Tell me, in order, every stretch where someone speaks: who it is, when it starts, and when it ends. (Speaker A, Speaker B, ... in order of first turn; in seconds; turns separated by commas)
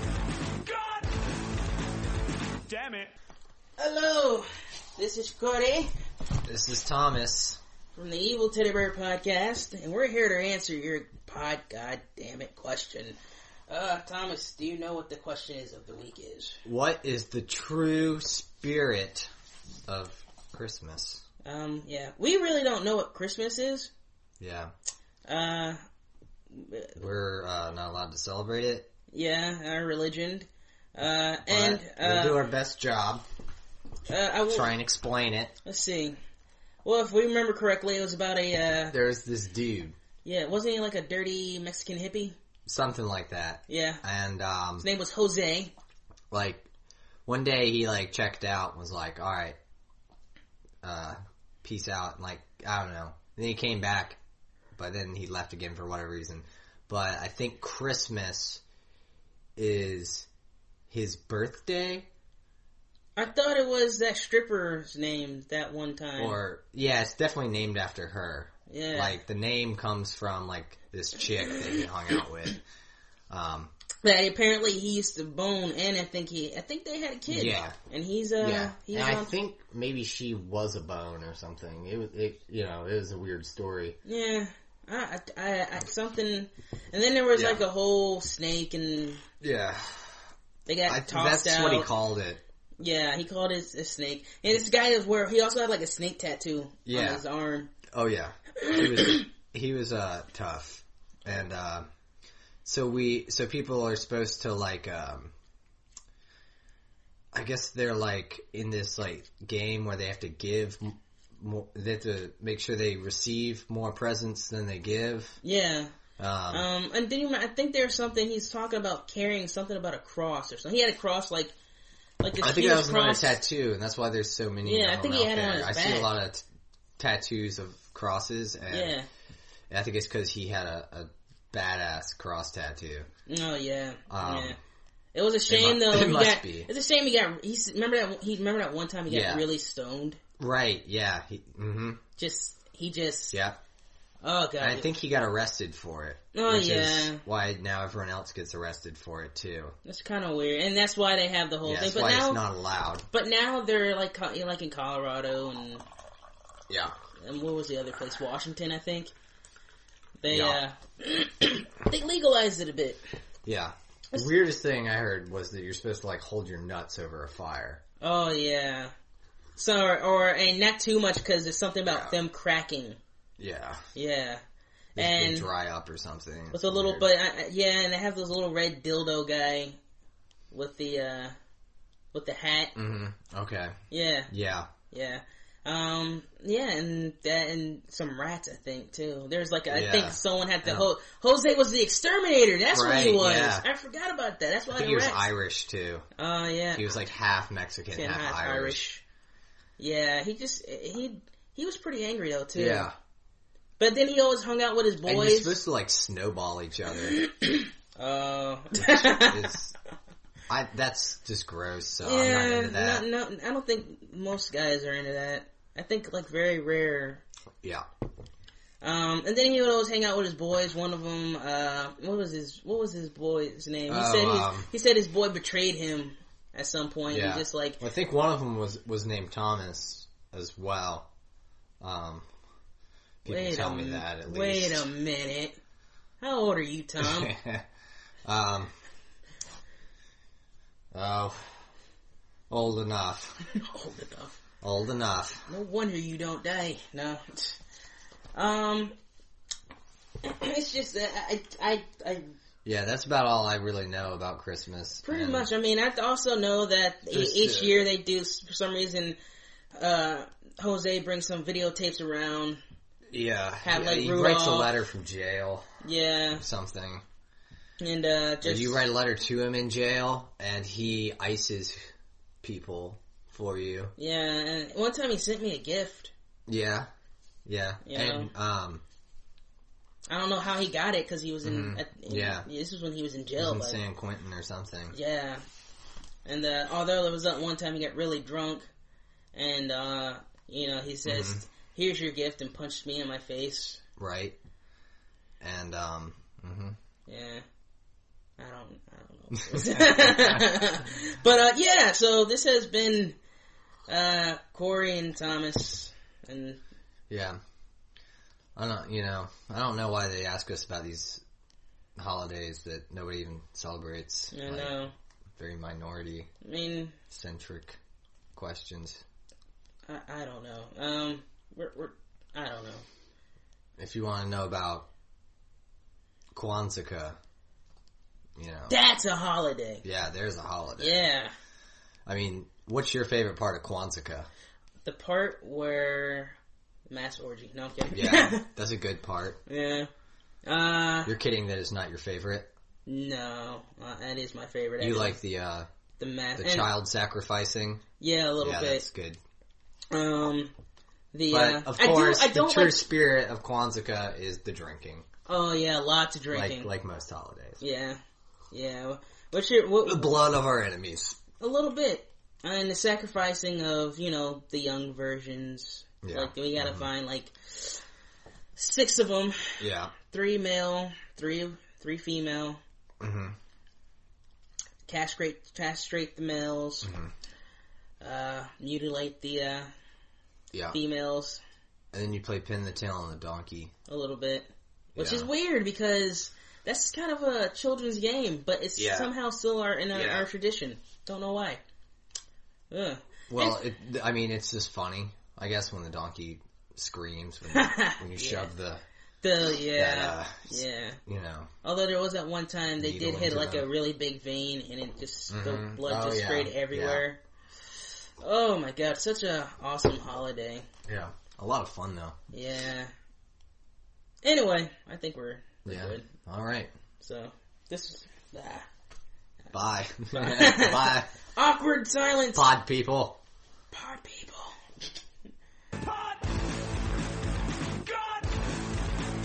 Speaker A: 0.6-1.1, Speaker A: 2.6-3.1, Speaker B: 3.8-5.9, Speaker C: 6.5-7.6, Speaker B: 7.9-13.2, Speaker B: 13.7-16.6, Speaker C: 16.6-19.3, Speaker C: 19.9-21.2, Speaker B: 21.4-23.9, Speaker C: 24.4-24.7, Speaker B: 25.3-25.8, Speaker B: 26.5-26.9, Speaker C: 27.0-28.9, Speaker B: 29.1-32.5, Speaker C: 31.5-33.2, Speaker B: 34.1-34.7, Speaker C: 34.5-35.5, Speaker B: 35.6-36.2, Speaker B: 36.8-39.0, Speaker C: 38.9-40.0, Speaker B: 40.2-42.4, Speaker C: 42.6-44.9, Speaker B: 43.7-44.0, Speaker B: 44.8-45.7, Speaker C: 46.3-46.7, Speaker C: 47.2-49.6, Speaker C: 50.8-54.2, Speaker C: 54.8-58.6, Speaker C: 59.5-60.3, Speaker C: 60.9-62.1, Speaker B: 63.1-66.4, Speaker C: 66.2-72.6, Speaker B: 68.7-69.2, Speaker C: 73.3-73.7, Speaker B: 74.0-79.3, Speaker C: 77.3-77.8, Speaker C: 78.4-84.0, Speaker B: 84.0-89.2, Speaker C: 87.3-87.6, Speaker C: 89.4-90.2, Speaker B: 90.6-91.9, Speaker C: 90.9-92.4, Speaker B: 92.8-97.7, Speaker C: 96.8-97.2, Speaker C: 97.9-101.9, Speaker B: 98.6-99.3, Speaker C: 102.6-105.3, Speaker C: 107.3-115.4, Speaker B: 115.4-115.9, Speaker C: 116.2-116.7, Speaker B: 116.5-121.5, Speaker B: 122.2-123.4, Speaker C: 122.4-126.4, Speaker B: 124.6-126.1, Speaker C: 127.0-129.0, Speaker B: 128.7-129.1, Speaker C: 129.7-133.1, Speaker B: 133.3-134.6, Speaker C: 134.1-134.6, Speaker B: 135.1-140.2, Speaker C: 135.5-136.7, Speaker C: 139.1-139.5, Speaker C: 140.4-142.0, Speaker B: 142.2-143.4, Speaker C: 143.3-143.6, Speaker B: 144.2-144.9, Speaker C: 144.6-149.7, Speaker B: 146.3-147.2, Speaker B: 149.8-152.4, Speaker C: 151.6-153.1, Speaker B: 153.1-155.8, Speaker C: 156.7-156.9, Speaker B: 157.2-159.1, Speaker B: 160.2-163.0, Speaker C: 160.3-160.6, Speaker C: 163.4-167.8, Speaker B: 168.0-168.9, Speaker B: 169.6-173.0, Speaker C: 171.8-172.2, Speaker C: 173.4-173.8, Speaker B: 173.9-174.4, Speaker B: 174.9-175.5, Speaker C: 174.9-177.1, Speaker B: 176.5-179.8, Speaker B: 180.5-181.3, Speaker B: 182.1-182.7, Speaker C: 182.7-183.8, Speaker B: 183.9-184.3, Speaker C: 184.3-184.7, Speaker B: 184.9-195.3, Speaker C: 189.7-190.9, Speaker C: 192.7-193.7, Speaker C: 194.7-196.1, Speaker B: 196.2-196.9, Speaker C: 196.7-198.8, Speaker B: 197.9-199.0, Speaker B: 199.8-202.9, Speaker C: 202.5-202.9, Speaker B: 203.8-205.6, Speaker C: 205.0-207.2, Speaker B: 207.0-209.6, Speaker C: 208.7-209.7, Speaker C: 210.5-213.0, Speaker B: 212.0-217.2, Speaker B: 218.8-227.8, Speaker C: 223.9-224.7, Speaker C: 227.1-231.1, Speaker C: 231.8-232.3, Speaker C: 233.2-234.9, Speaker B: 233.2-235.6, Speaker B: 236.2-237.3, Speaker C: 237.0-237.6, Speaker C: 238.2-238.7, Speaker C: 240.9-241.6, Speaker C: 242.5-243.5, Speaker B: 243.5-244.4, Speaker C: 244.6-245.5, Speaker B: 245.5-247.6, Speaker B: 248.3-248.9, Speaker B: 250.2-252.3, Speaker C: 252.6-255.5, Speaker B: 255.0-259.2, Speaker C: 257.1-257.9, Speaker B: 259.8-262.6, Speaker C: 263.1-265.6, Speaker B: 263.6-264.7, Speaker B: 265.8-266.4, Speaker C: 266.4-267.0, Speaker B: 267.8-268.9, Speaker C: 268.4-271.9, Speaker C: 272.4-273.9, Speaker B: 273.9-276.1, Speaker C: 276.5-276.9, Speaker C: 277.4-278.8, Speaker B: 277.8-278.3, Speaker B: 280.1-283.8, Speaker C: 281.4-282.5, Speaker C: 283.4-285.0, Speaker B: 284.9-285.4, Speaker B: 286.2-288.7, Speaker B: 289.3-293.8, Speaker C: 291.0-291.4, Speaker C: 294.0-294.4, Speaker C: 295.4-296.8, Speaker B: 297.1-297.4, Speaker B: 298.4-303.1, Speaker C: 299.5-300.3, Speaker B: 303.9-306.6, Speaker C: 307.1-307.4, Speaker C: 308.6-311.2, Speaker C: 311.9-316.3, Speaker B: 314.3-314.9, Speaker B: 316.4-317.0, Speaker C: 317.1-317.8, Speaker C: 318.3-319.0, Speaker B: 319.9-322.8, Speaker C: 323.8-324.9, Speaker C: 326.3-327.2, Speaker C: 328.4-328.8, Speaker B: 328.7-329.8, Speaker C: 329.8-331.1, Speaker B: 330.8-331.3, Speaker C: 332.1-334.3, Speaker B: 334.8-336.4, Speaker B: 336.9-338.4, Speaker C: 337.9-339.4, Speaker B: 339.5-339.9, Speaker B: 340.4-341.1, Speaker C: 341.0-342.5, Speaker B: 342.9-345.2, Speaker C: 344.8-345.7, Speaker B: 346.0-346.7, Speaker C: 346.4-347.8, Speaker B: 348.0-348.9, Speaker C: 348.4-349.2, Speaker B: 349.9-350.5, Speaker B: 351.1-352.9, Speaker C: 351.3-355.1, Speaker B: 355.3-356.7, Speaker C: 356.3-357.6, Speaker B: 357.6-358.0, Speaker B: 358.5-360.3, Speaker C: 359.8-361.2, Speaker B: 361.4-367.8, Speaker C: 366.0-366.9, Speaker B: 368.6-372.6, Speaker C: 369.6-369.9, Speaker C: 373.0-373.3, Speaker B: 374.9-376.9, Speaker C: 376.8-377.1, Speaker B: 378.0-379.7, Speaker C: 380.5-380.8, Speaker B: 380.7-381.4, Speaker C: 381.9-383.7, Speaker B: 383.9-391.6, Speaker C: 384.9-385.3, Speaker C: 388.8-389.1, Speaker C: 389.9-390.3, Speaker B: 392.7-393.6, Speaker C: 393.3-398.8, Speaker B: 397.5-398.5, Speaker B: 399.2-401.0, Speaker C: 399.7-401.5, Speaker B: 401.6-407.2, Speaker C: 402.8-403.7, Speaker C: 405.3-407.0, Speaker B: 408.2-410.6, Speaker C: 410.9-412.1, Speaker B: 412.3-412.9, Speaker B: 414.2-416.1, Speaker C: 415.6-416.7, Speaker B: 417.0-418.7, Speaker C: 419.5-421.1, Speaker B: 420.1-422.5, Speaker C: 422.3-423.2, Speaker B: 423.7-424.5, Speaker A: 425.8-426.3, Speaker A: 427.8-428.3